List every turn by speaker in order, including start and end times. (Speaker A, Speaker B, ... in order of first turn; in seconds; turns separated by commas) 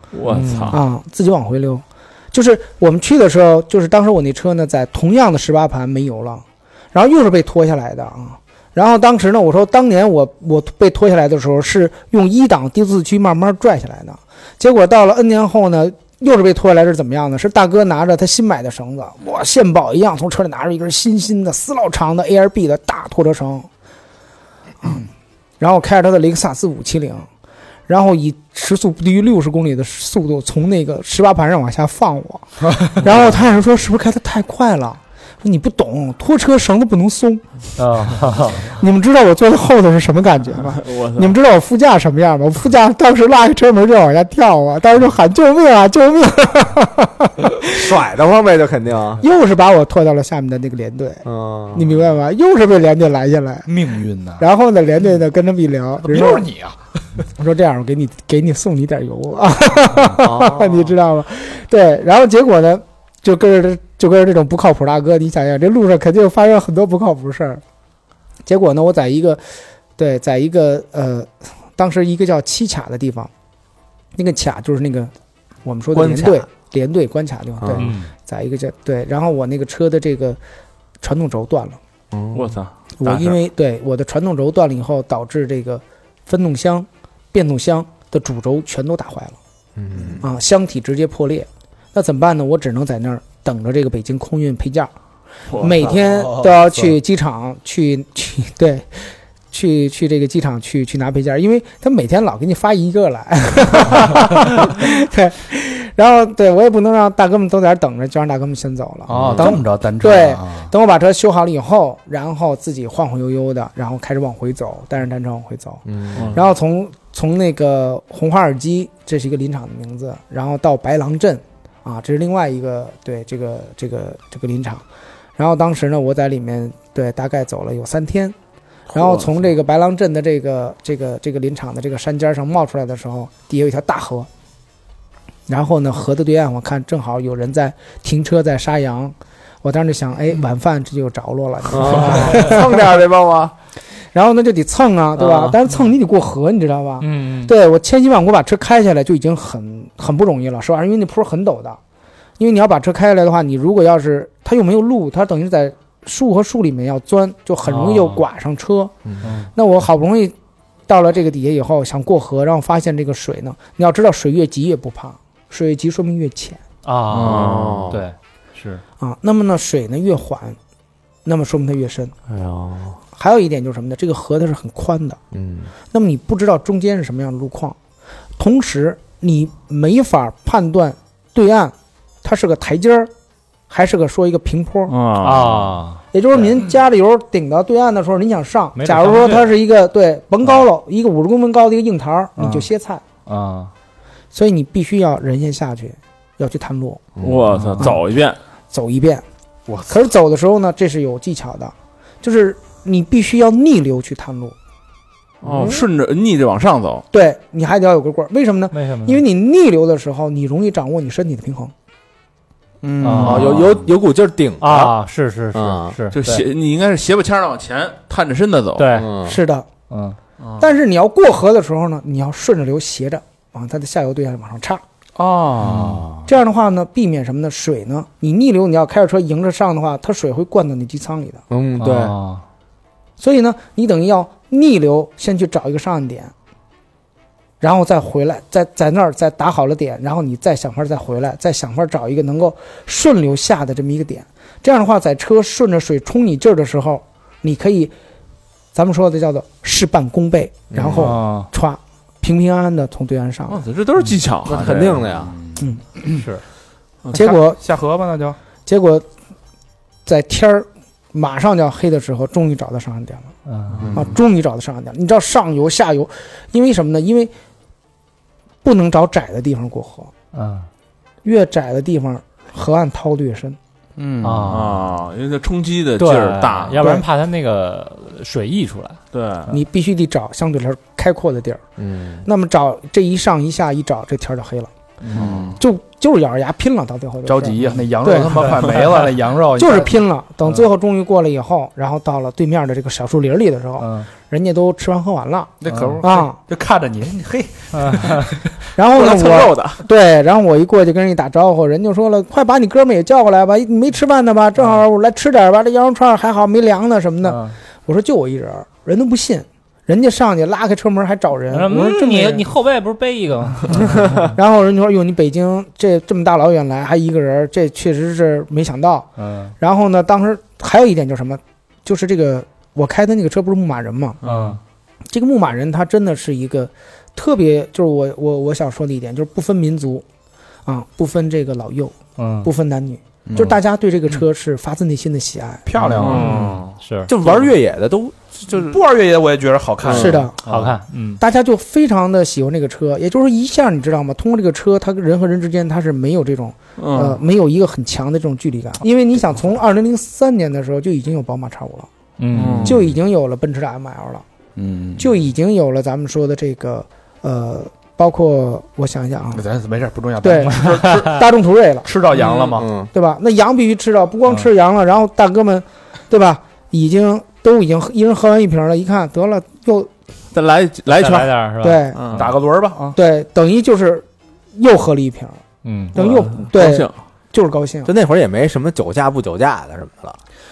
Speaker A: 0.1-0.8, Speaker B: 0.3-0.8, Speaker C: 0.7-23.7, Speaker C: 25.6-27.3, Speaker C: 27.9-37.4, Speaker B: 37.8-38.8, Speaker C: 38.6-47.9, Speaker A: 40.6-41.3, Speaker D: 47.6-49.2, Speaker C: 49.2-53.7, Speaker D: 51.2-52.0, Speaker E: 53.7-54.4, Speaker C: 54.4-56.5, Speaker E: 56.0-56.8, Speaker C: 57.4-67.6, Speaker D: 60.1-60.9, Speaker C: 68.5-69.4, Speaker C: 70.0-73.3, Speaker C: 74.1-75.1, Speaker C: 75.6-80.4, Speaker D: 75.9-76.5, Speaker D: 77.6-77.9, Speaker B: 77.7-78.1, Speaker C: 81.0-81.8, Speaker D: 82.1-82.6, Speaker A: 82.3-83.4, Speaker C: 83.0-89.4, Speaker D: 89.8-90.2, Speaker C: 90.2-94.9, Speaker A: 95.5-95.9, Speaker D: 95.6-96.9, Speaker C: 95.6-124.8, Speaker E: 109.1-110.7, Speaker D: 109.1-109.6, Speaker D: 115.8-116.3, Speaker A: 116.2-116.4, Speaker C: 125.3-128.3, Speaker C: 128.9-134.3, Speaker A: 128.9-129.3, Speaker C: 135.5-142.9, Speaker D: 141.7-143.5, Speaker C: 144.1-151.8, Speaker D: 145.2-145.6, Speaker B: 147.0-147.5, Speaker C: 152.4-158.9, Speaker B: 157.6-158.2, Speaker B: 159.2-159.5, Speaker C: 159.5-160.3, Speaker C: 160.9-166.6, Speaker B: 166.8-168.8, Speaker A: 167.1-167.9, Speaker D: 167.1-168.0, Speaker C: 169.0-170.6, Speaker C: 171.2-172.1, Speaker D: 172.3-173.0, Speaker C: 173.1-175.2, Speaker D: 175.3-175.7, Speaker C: 175.9-177.8, Speaker C: 178.4-183.1, Speaker C: 183.7-184.9, Speaker A: 184.9-185.7, Speaker B: 185.2-186.0, Speaker C: 186.1-193.0, Speaker B: 188.8-189.5, Speaker B: 192.3-192.7, Speaker B: 193.2-193.7, Speaker C: 194.3-197.0, Speaker D: 197.2-197.6, Speaker A: 197.2-198.4, Speaker C: 198.7-199.2, Speaker C: 199.9-204.5, Speaker A: 205.4-207.0, Speaker D: 205.4-205.8, Speaker C: 207.1-211.7, Speaker B: 208.7-209.2, Speaker E: 212.8-213.8, Speaker B: 213.0-213.6, Speaker D: 213.2-214.9, Speaker A: 213.2-213.8, Speaker B: 214.6-216.4, Speaker D: 215.5-216.0, Speaker A: 216.1-218.9, Speaker B: 218.8-219.1, Speaker D: 218.9-219.4, Speaker C: 219.2-219.7, Speaker B: 219.9-220.2, Speaker A: 220.4-220.6, Speaker C: 220.6-224.8, Speaker E: 225.2-226.1, Speaker D: 225.7-226.2, Speaker C: 226.2-231.4, Speaker D: 231.5-232.2, Speaker B: 231.8-232.4, Speaker C: 233.2-236.3, Speaker C: 237.6-247.9, Speaker C: 248.7-253.6, Speaker D: 250.7-251.2, Speaker B: 251.0-251.5, Speaker A: 253.5-255.0, Speaker D: 254.4-255.4, Speaker E: 254.7-256.2, Speaker B: 256.1-256.4, Speaker A: 257.0-257.3, Speaker C: 257.1-257.6, Speaker E: 257.6-258.4, Speaker C: 258.6-259.1, Speaker C: 260.1-263.3, Speaker B: 263.4-263.9, Speaker A: 263.7-264.1, Speaker C: 263.9-267.3, Speaker C: 268.6-270.1, Speaker B: 270.3-270.7, Speaker C: 271.2-273.6, Speaker E: 274.0-274.8, Speaker B: 274.2-274.7, Speaker A: 274.5-276.9, Speaker B: 276.0-279.0, Speaker A: 279.1-279.5, Speaker C: 279.5-281.6, Speaker D: 281.8-282.2, Speaker C: 282.2-284.7, Speaker E: 285.1-285.6, Speaker A: 285.1-285.6, Speaker C: 285.6-288.7, Speaker E: 287.2-290.0, Speaker C: 289.6-296.4, Speaker B: 293.8-294.1, Speaker E: 295.6-298.6, Speaker B: 295.7-296.1, Speaker B: 297.7-298.3, Speaker C: 298.7-312.4, Speaker A: 298.9-299.8, Speaker B: 307.2-307.5, Speaker B: 311.5-314.3, Speaker C: 314.2-324.2, Speaker B: 319.2-319.5, Speaker A: 324.2-324.6, Speaker B: 324.2-324.6, Speaker C: 325.1-330.0, Speaker C: 330.6-335.7, Speaker B: 332.2-332.5, Speaker E: 333.3-333.6, Speaker E: 335.7-336.6, Speaker A: 335.8-336.8, Speaker B: 336.0-337.1, Speaker D: 337.1-338.8, Speaker E: 338.5-340.6, Speaker D: 339.8-340.3, Speaker C: 339.9-340.4, Speaker B: 340.4-341.2, Speaker C: 341.2-351.9, Speaker A: 346.8-347.2, Speaker B: 352.2-352.7, Speaker A: 352.3-352.8, Speaker E: 352.3-352.8, Speaker C: 352.6-354.2, Speaker E: 354.6-355.1, Speaker C: 355.0-359.4, Speaker E: 359.3-361.3, Speaker C: 360.2-361.9, Speaker B: 360.6-361.1, Speaker E: 361.8-362.7, Speaker A: 362.1-362.6, Speaker D: 362.5-362.9, Speaker C: 362.9-369.9, Speaker A: 370.3-372.3, Speaker B: 370.9-372.3, Speaker C: 371.6-372.0, Speaker E: 372.1-373.0, Speaker C: 372.9-375.4, Speaker B: 375.6-376.0, Speaker C: 375.9-377.9, Speaker A: 375.9-376.9, Speaker D: 377.8-380.2